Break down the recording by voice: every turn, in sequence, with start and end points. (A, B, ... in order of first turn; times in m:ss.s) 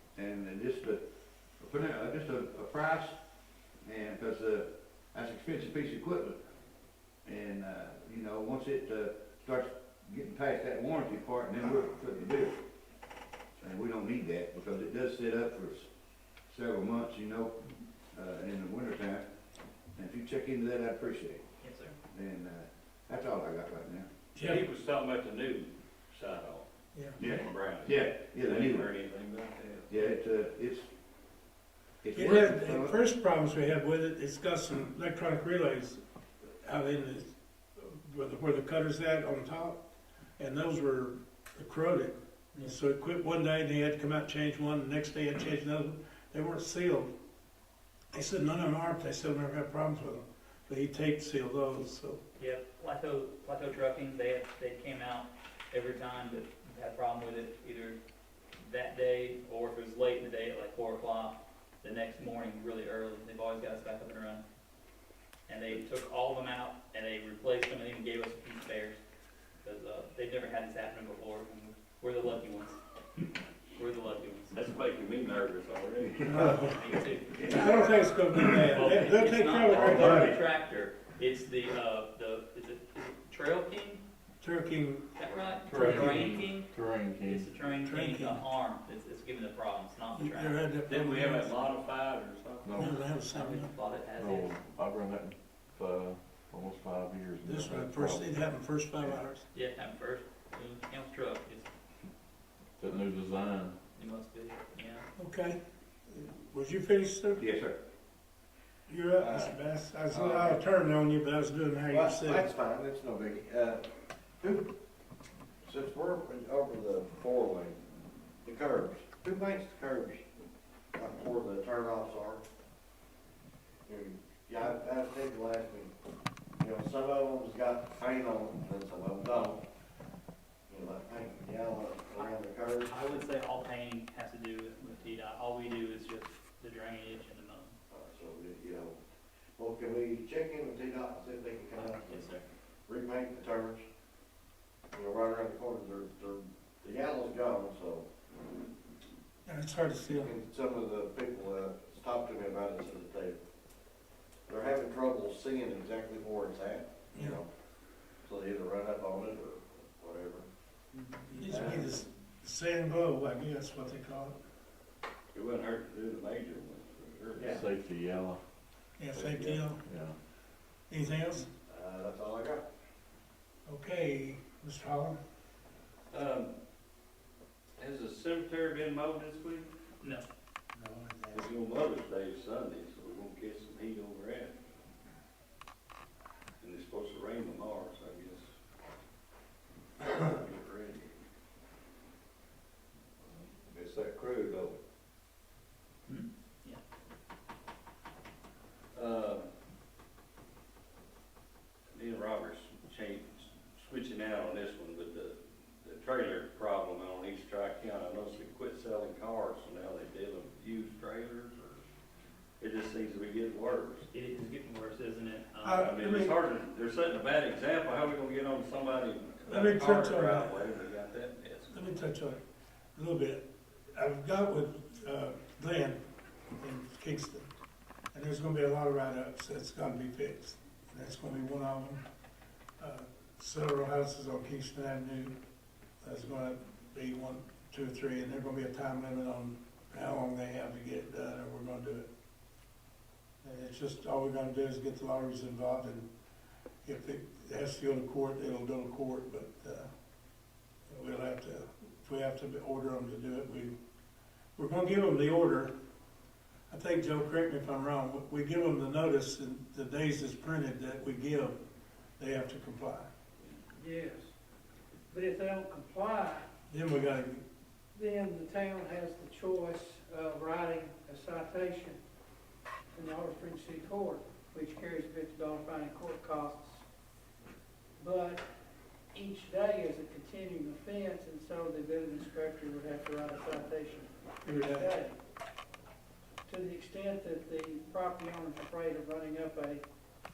0:00.1-0:01.0 A
0:01.6-0:03.2 A
0:03.8-0:06.4 A
0:07.2-0:12.6 A
0:13.6-0:15.9 A
0:16.5-0:17.6 A
0:18.1-0:19.3 A
0:20.0-0:21.4 A
0:21.6-0:22.0 B
0:22.1-0:24.1 A
0:24.3-0:24.6 C
0:24.4-0:26.6 D
0:26.9-0:27.2 C
0:27.2-0:28.9 A
0:27.2-0:30.0 D
0:29.9-0:30.9 A
0:32.0-0:33.0 A
0:32.1-0:36.0 C
0:36.6-0:39.8 C
0:40.4-0:47.1 C
0:48.1-0:52.2 C
0:52.4-0:58.0 B
0:58.6-1:04.4 B
1:05.5-1:09.0 B
1:09.6-1:14.5 B
1:14.5-1:16.5 D
1:16.2-1:20.4 C
1:16.7-1:18.2 B
1:18.7-1:24.0 B
1:19.7-1:20.4 A
1:24.4-1:25.1 C
1:25.1-1:30.6 B
1:25.6-1:27.6 E
1:27.8-1:28.5 C
1:30.1-1:31.6 C
1:30.9-1:32.8 D
1:32.6-1:33.0 E
1:32.8-1:33.7 C
1:32.9-1:34.5 B
1:34.1-1:38.4 E
1:37.4-1:39.4 C
1:39.5-1:41.7 B
1:42.8-1:43.8 E
1:43.9-1:45.0 B
1:45.2-1:47.4 C
1:47.4-1:47.8 A
1:48.9-1:52.5 C
1:49.2-1:49.5 F
1:50.1-1:50.6 F
1:51.9-1:53.9 F
1:54.4-1:54.7 F
1:55.6-1:57.8 F
1:58.4-2:00.2 F
2:00.9-2:02.4 F
2:03.8-2:05.9 F
2:06.6-2:09.6 F
2:10.7-2:13.2 F
2:12.9-2:17.8 B
2:17.9-2:19.0 F
2:19.6-2:22.2 F
2:21.8-2:22.4 B
2:22.9-2:23.8 F
2:24.9-2:28.0 F
2:29.4-2:30.3 C
2:30.2-2:33.4 F
2:34.5-2:37.5 F
2:38.2-2:40.4 F
2:41.3-2:44.4 C
2:41.4-2:41.9 F
2:45.3-2:47.6 D
2:47.4-2:48.4 E
2:47.4-2:47.6 F
2:49.0-2:49.8 C
2:49.1-2:49.7 D
2:49.8-2:50.2 E
2:50.9-2:51.5 C
2:51.7-2:52.6 F
2:53.6-2:55.2 C
2:56.1-2:56.5 D
2:57.8-2:59.7 D
3:00.0-3:00.3 B
3:00.8-3:01.4 C
3:01.3-3:04.6 D
3:06.6-3:08.4 D
3:10.0-3:11.1 D
3:13.7-3:14.7 A
3:16.0-3:16.8 B
3:18.9-3:19.5 D
3:21.9-3:31.8 D
3:32.6-3:34.1 D
3:34.1-3:35.8 B
3:35.6-3:36.4 C
3:35.8-3:41.7 D
3:39.5-3:40.7 C
3:41.7-3:42.4 C
3:43.0-3:43.4 C
3:43.9-3:46.0 C
3:46.6-3:47.5 C
3:48.1-3:52.0 C
3:52.8-3:55.3 C
3:56.0-4:02.1 C
4:03.4-4:06.1 C
4:06.8-4:09.9 C
4:10.9-4:13.7 C
4:14.6-4:15.7 C
4:16.7-4:21.6 C
4:22.2-4:23.1 C
4:23.8-4:24.2 G
4:25.1-4:26.5 G
4:26.7-4:27.4 C
4:27.9-4:32.0 G
4:32.9-4:36.8 G
4:38.0-4:38.4 G
4:39.1-4:45.2 G
4:44.4-4:44.9 C
4:46.5-4:49.8 G